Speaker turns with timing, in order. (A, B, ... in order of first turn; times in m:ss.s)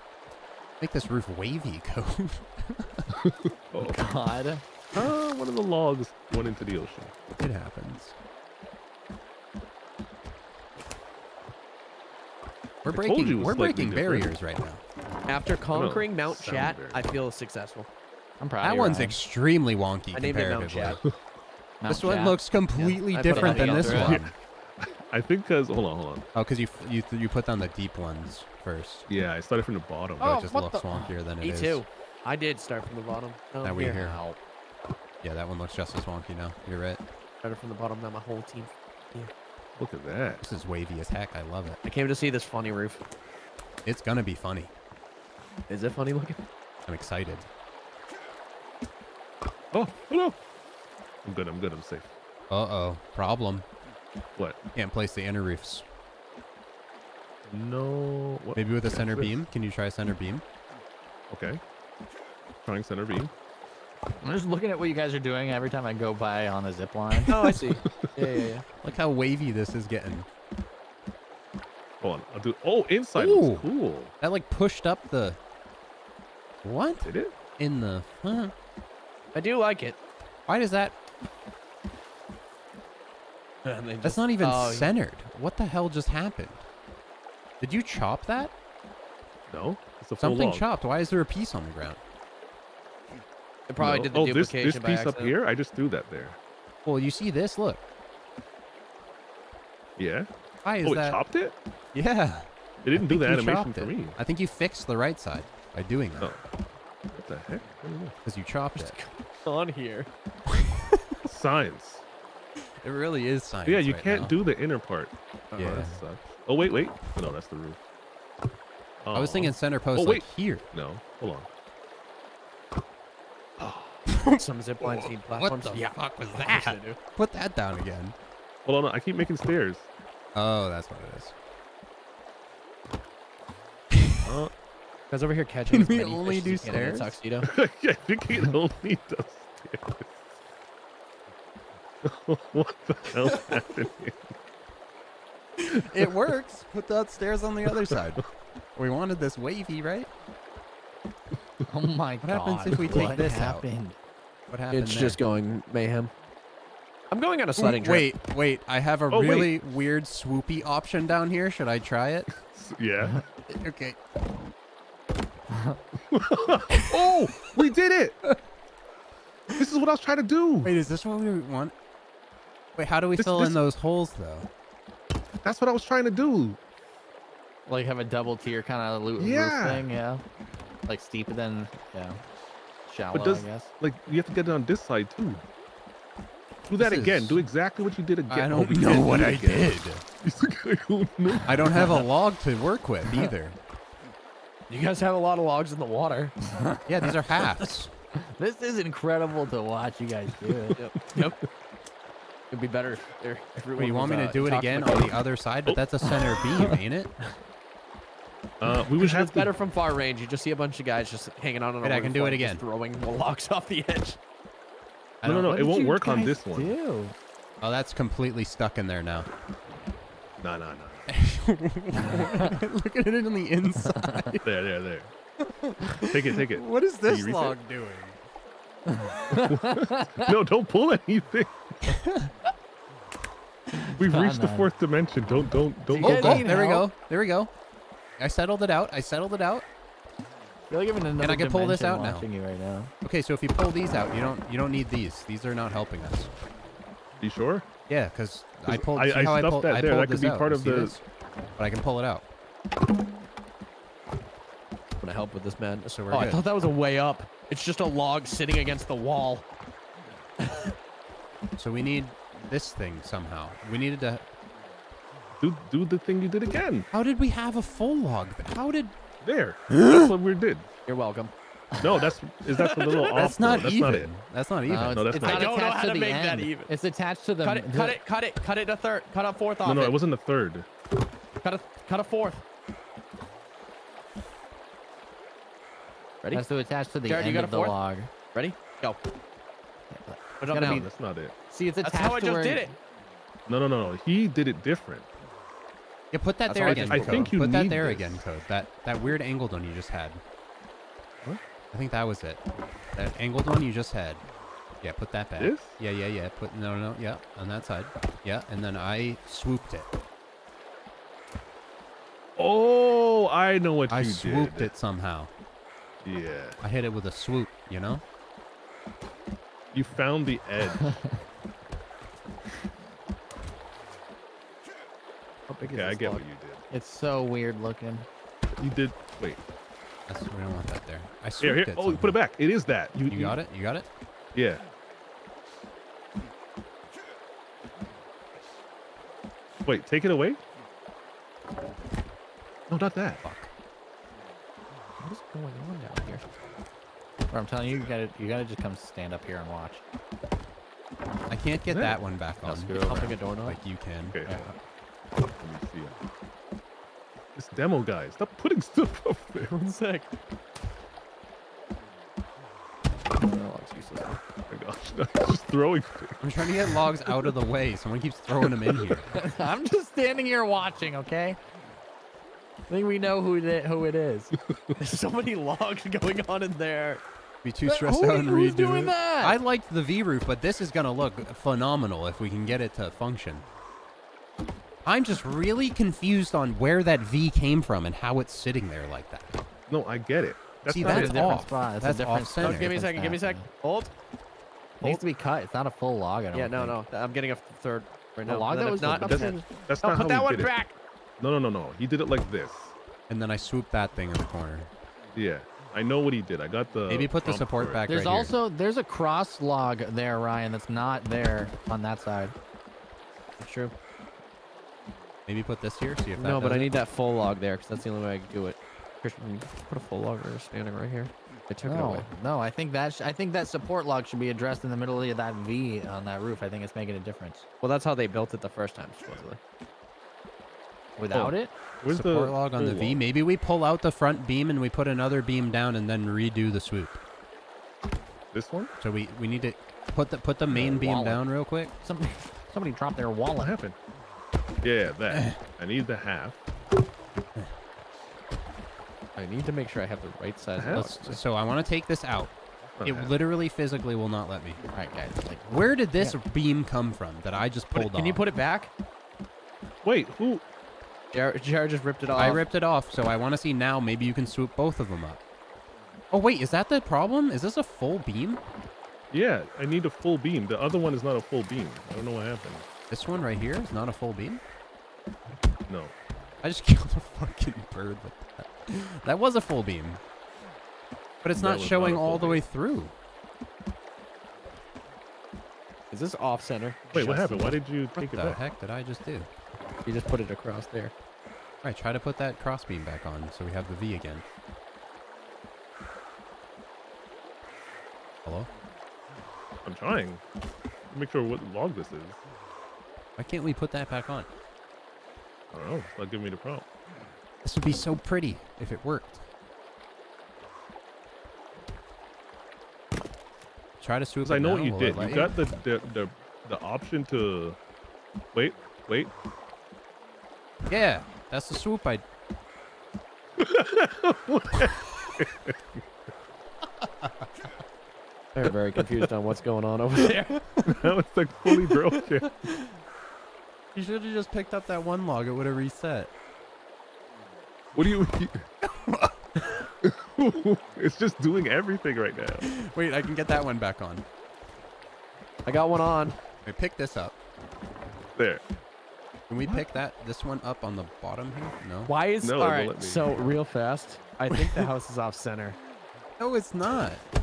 0:00.8-0:03.1 A
0:03.1-0:04.1 B
0:03.8-0:04.6 C
0:04.9-0:07.1 B
0:07.4-0:08.2 A
0:12.8-0:14.8 A
0:12.9-0:14.3 B
0:15.3-0:17.9 D
0:15.7-0:17.1 B
0:18.4-0:19.2 C
0:18.6-0:21.0 A
0:20.1-0:21.0 D
0:21.8-0:24.2 C
0:21.9-0:24.3 A
0:23.1-0:24.2 D
0:24.1-0:26.3 B
0:26.4-0:29.1 A
0:29.1-0:30.5 B
0:30.2-0:31.8 A
0:30.2-0:34.0 D
0:33.6-0:34.2 A
0:33.7-0:34.4 C
0:35.2-0:37.0 A
0:37.4-0:39.3 D
0:39.8-0:40.4 B
0:40.4-0:41.8 A
0:41.8-0:43.0 D
0:43.8-0:44.7 A
0:45.7-0:46.4 D
0:46.9-0:47.5 A
0:49.7-0:50.4 B
0:51.2-0:52.1 B
0:52.5-0:53.7 A
0:54.8-0:55.8 A
0:57.4-0:59.4 B
0:58.6-1:00.4 A
1:01.3-1:01.6 B
1:02.6-1:03.3 B
1:04.2-1:07.4 C
1:07.3-1:08.6 D
1:08.8-1:10.3 A
1:12.0-1:14.1 B
1:13.2-1:13.7 A
1:14.2-1:15.4 A
1:16.6-1:18.5 A
1:17.0-1:17.3 B
1:19.3-1:20.0 D
1:20.5-1:21.0 A
1:23.6-1:24.9 D
1:24.0-1:26.7 A
1:27.6-1:28.5 A
1:29.5-1:30.6 B
1:30.2-1:32.0 A
1:33.7-1:35.4 D
1:33.8-1:36.4 B
1:36.8-1:37.8 A
1:40.0-1:40.3 B
1:40.6-1:41.2 A
1:40.8-1:41.6 B
1:42.0-1:46.3 A
1:42.8-1:44.2 B
1:47.1-1:48.2 B
1:48.2-1:49.0 A
1:48.8-1:50.1 D
1:50.5-1:51.0 A
1:51.2-1:52.0 B
1:52.8-1:54.4 A
1:53.7-1:57.8 B
1:55.6-1:56.0 A
1:59.0-2:01.5 B
1:59.1-2:00.6 A
2:03.6-2:04.1 B
2:04.1-2:04.4 A
2:04.4-2:07.0 D
2:04.9-2:08.2 A
2:08.6-2:09.9 B
2:10.4-2:11.4 A
2:14.2-2:14.5 B
2:15.1-2:17.5 D
2:15.7-2:17.2 A
2:17.4-2:20.2 B
2:22.0-2:24.2 B
2:25.6-2:28.2 A
2:27.7-2:28.2 B
2:28.8-2:30.1 A
2:31.7-2:34.0 C
2:32.2-2:33.6 A
2:34.5-2:35.2 A
2:34.7-2:36.1 D
2:37.1-2:38.1 D
2:37.6-2:42.3 A
2:39.1-2:39.6 B
2:42.4-2:43.2 B
2:43.5-2:44.0 A
2:45.5-2:45.8 C
2:46.1-2:48.2 B
2:49.6-2:50.7 B
2:50.6-2:51.7 A
2:52.8-2:54.5 A
2:53.2-2:53.6 B
2:55.4-2:56.6 B
2:57.7-3:00.2 C
2:59.2-2:59.9 B
3:00.9-3:02.2 C
3:02.9-3:03.7 C
3:03.1-3:05.4 B
3:06.7-3:11.9 B
3:06.8-3:07.4 A
3:08.3-3:10.0 A
3:11.5-3:13.6 A
3:14.7-3:16.4 D
3:16.6-3:16.8 C
3:16.9-3:17.9 A
3:18.2-3:20.8 C
3:20.8-3:21.4 D
3:22.5-3:25.2 D
3:23.8-3:27.1 A
3:28.6-3:29.5 B
3:29.0-3:34.2 D
3:31.8-3:32.6 A
3:35.2-3:35.6 A
3:35.2-3:36.8 B
3:35.2-3:37.2 C
3:37.6-3:39.3 A
3:40.4-3:41.1 B
3:41.1-3:44.5 A
3:42.0-3:42.5 C
3:43.9-3:44.2 C
3:44.4-3:45.1 B
3:45.4-3:48.2 A
3:46.0-3:47.6 B
3:48.9-3:50.3 C
3:49.3-3:51.7 B
3:51.9-3:52.3 A
3:53.9-3:54.7 C
3:54.0-3:56.5 B
3:55.9-3:56.9 C
3:56.0-3:57.5 A
3:58.2-3:59.7 A
4:00.7-4:02.9 C
4:01.2-4:02.3 A
4:03.0-4:06.4 A
4:07.2-4:07.7 B
4:07.9-4:11.0 A
4:08.7-4:11.0 B
4:11.6-4:12.3 A
4:15.0-4:19.5 D
4:15.9-4:16.4 A
4:21.6-4:24.2 A
4:25.4-4:26.9 B
4:26.9-4:28.9 A
4:29.2-4:30.7 B
4:29.7-4:30.1 A
4:30.9-4:31.3 D
4:31.8-4:34.1 B
4:32.5-4:33.2 D
4:33.1-4:35.4 A
4:34.7-4:38.0 C
4:34.9-4:35.5 B
4:35.2-4:36.7 D
4:37.4-4:40.0 D
4:39.6-4:40.7 B
4:41.4-4:42.4 D
4:46.3-4:48.1 C
4:47.1-4:47.8 D
4:48.3-4:49.0 D
4:49.9-4:50.9 C
4:50.4-4:50.9 D
4:50.6-4:51.3 B
4:51.5-4:52.7 C
4:51.8-4:52.8 D
4:53.5-4:55.1 B
4:56.1-5:00.2 A
4:56.6-4:57.3 C
4:56.7-4:58.3 B
4:56.7-4:57.0 D
5:01.7-5:02.4 A
5:02.9-5:04.2 A
5:04.8-5:09.9 A
5:05.4-5:05.8 B
5:12.4-5:14.7 B
5:13.9-5:15.3 A
5:16.0-5:16.6 B
5:16.6-5:18.0 A
5:19.7-5:21.0 B
5:25.5-5:26.2 D
5:25.6-5:26.6 B
5:26.7-5:28.1 C
5:28.6-5:29.4 B
5:30.1-5:32.2 A
5:31.4-5:33.4 B
5:33.1-5:33.9 A
5:34.3-5:34.7 B
5:39.6-5:40.4 B
5:42.7-5:43.2 B
5:43.2-5:43.5 A
5:45.0-5:46.4 D
5:47.3-5:49.8 C
5:51.3-5:54.2 A
5:51.7-5:52.0 B
5:52.4-5:53.2 C
5:52.8-5:53.6 D
5:54.1-5:54.5 B
5:54.3-5:54.5 C
5:55.4-5:56.0 B
5:57.4-5:59.6 B
5:59.5-6:00.2 D
6:03.2-6:04.2 D
6:04.5-6:07.3 B
6:06.2-6:09.1 A
6:08.4-6:09.0 B
6:09.1-6:11.4 C
6:12.7-6:14.4 C
6:14.8-6:17.0 D
6:17.4-6:23.5 A
6:17.7-6:19.4 C
6:24.8-6:29.4 A
6:29.7-6:31.3 B
6:30.7-6:32.8 A
6:30.8-6:33.4 C
6:32.4-6:33.9 D
6:34.8-6:36.8 C
6:36.3-6:40.8 D
6:38.3-6:39.6 C
6:39.0-6:40.6 B
6:41.2-6:42.7 B
6:43.1-6:44.7 A
6:45.1-6:47.9 B
6:46.9-6:48.4 A
6:47.9-6:52.4 C
6:53.4-6:53.7 D
6:55.3-6:56.7 A
6:56.2-7:02.1 D
7:01.6-7:07.5 C
7:07.6-7:09.4 D
7:11.0-7:11.5 C
7:11.1-7:13.0 B
7:11.9-7:17.0 A
7:18.3-7:18.7 B
7:18.8-7:21.7 A
7:20.6-7:21.2 C
7:21.8-7:23.6 C
7:23.4-7:23.8 B
7:24.6-7:26.4 B
7:25.1-7:25.4 A
7:29.2-7:31.2 D
7:30.6-7:30.9 B
7:30.7-7:34.6 A
7:32.8-7:33.2 B
7:34.7-7:36.2 C
7:35.5-7:38.2 A
7:37.7-7:38.7 D
7:39.8-7:40.4 B
7:41.1-7:42.4 D
7:42.1-7:45.2 A
7:46.1-7:48.4 A
7:49.1-7:52.7 B
7:52.9-7:54.4 A
7:55.7-7:55.9 B
7:56.4-8:00.0 A
8:01.2-8:02.9 A
8:01.4-8:02.4 B
8:05.9-8:07.6 D
8:06.9-8:08.4 B
8:08.0-8:09.3 A
8:09.9-8:10.9 D
8:11.6-8:14.2 A
8:19.6-8:20.2 B
8:20.9-8:22.2 B
8:23.2-8:24.3 A
8:25.5-8:26.7 B
8:27.4-8:29.2 A
8:33.8-8:35.4 A
8:34.2-8:37.6 B
8:38.3-8:39.1 B
8:40.7-8:42.0 A
8:43.4-8:45.8 B
8:48.4-8:50.5 D
8:50.7-8:52.3 B
8:53.8-8:56.1 A
8:57.7-8:58.5 B
8:58.6-8:59.2 A
8:59.8-9:02.5 B
9:02.7-9:04.0 A
9:05.5-9:06.2 D
9:06.4-9:07.1 A
9:08.2-9:08.4 B
9:09.3-9:11.9 A
9:11.9-9:15.6 D
9:12.2-9:13.2 B
9:14.3-9:14.7 A
9:16.2-9:17.0 A